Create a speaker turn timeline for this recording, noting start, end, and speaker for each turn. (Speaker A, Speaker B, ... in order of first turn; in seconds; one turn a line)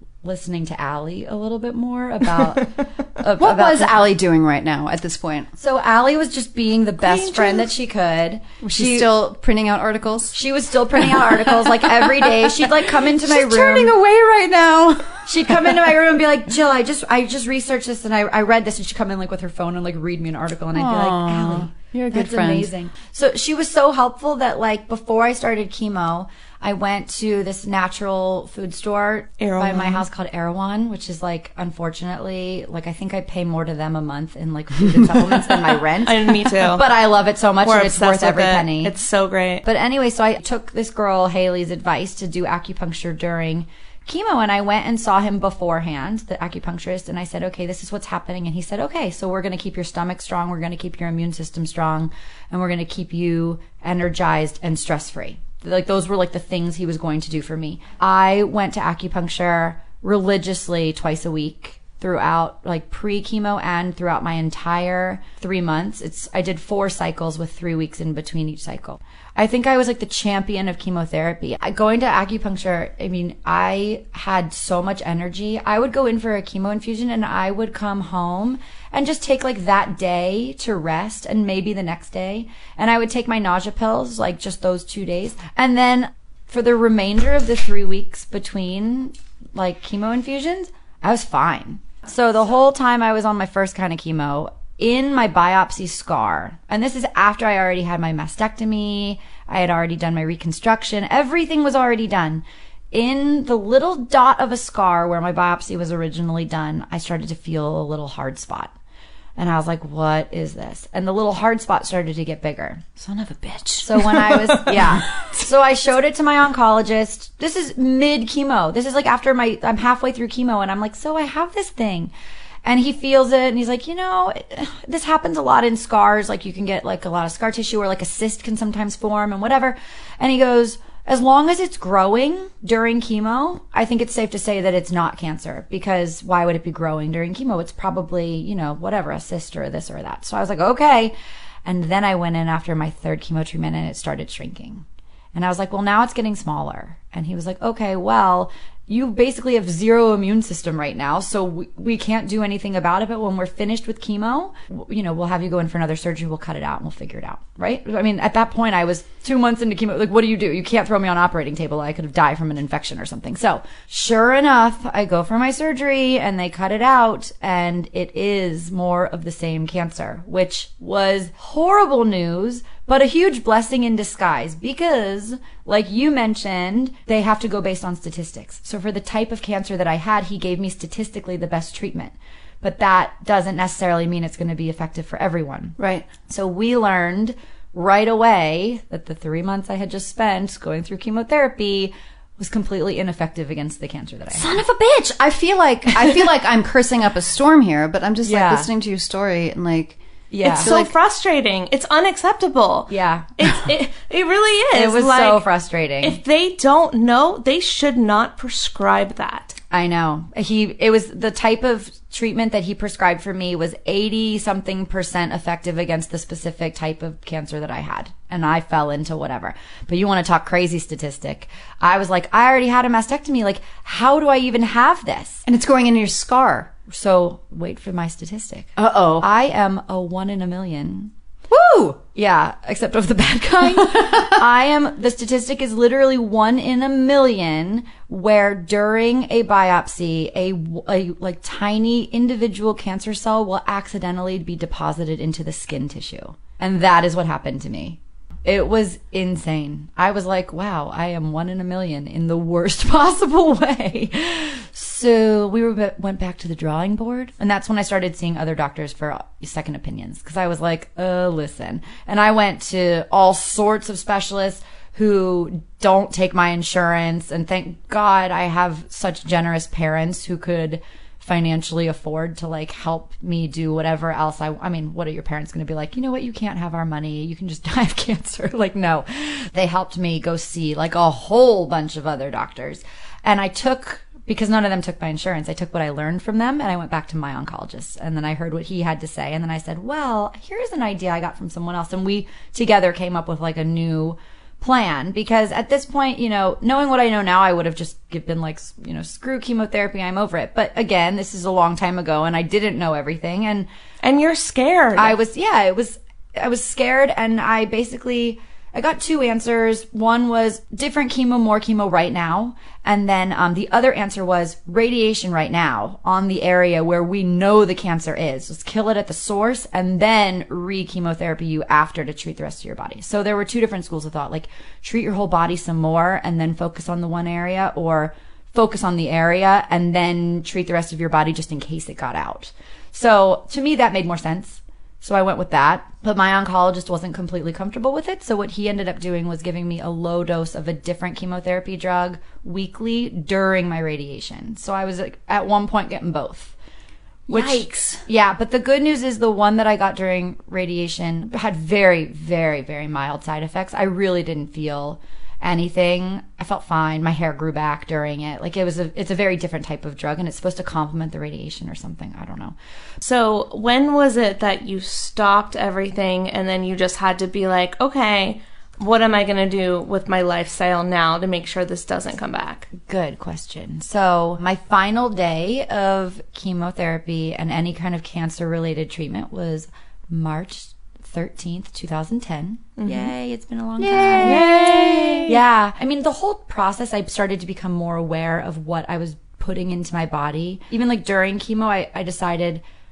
Speaker A: 0.2-4.0
Speaker B: 3.4-5.5
Speaker A: 5.6-9.2
Speaker B: 7.0-7.7
Speaker B: 8.6-16.0
Speaker A: 10.3-14.0
Speaker A: 15.2-38.9
Speaker B: 20.8-22.7
Speaker C: 29.4-30.1
Speaker C: 35.7-36.9
Speaker C: 37.6-39.6
Speaker A: 39.6-108.7
Speaker A: 109.4-112.9
Speaker B: 113.0-115.4
Speaker A: 113.8-122.1
Speaker A: 122.7-141.1
Speaker A: 141.7-185.8
Speaker B: 185.8-186.1
Speaker A: 186.3-194.6
Speaker B: 194.3-200.9
Speaker A: 198.2-198.7
Speaker A: 200.3-200.7
Speaker C: 200.4-205.4
Speaker A: 202.9-203.5
Speaker A: 204.7-206.2
Speaker C: 206.0-209.6
Speaker A: 209.7-225.4
Speaker B: 225.5-226.8
Speaker A: 226.8-231.1
Speaker B: 228.8-229.3
Speaker B: 231.5-232.1
Speaker A: 232.1-303.7
Speaker B: 233.8-234.4
Speaker C: 304.0-305.2
Speaker A: 305.0-346.6
Speaker A: 347.3-362.6
Speaker B: 347.3-348.0
Speaker C: 363.0-372.7
Speaker A: 372.7-392.6
Speaker C: 382.8-383.1
Speaker B: 383.8-385.2
Speaker C: 384.2-385.4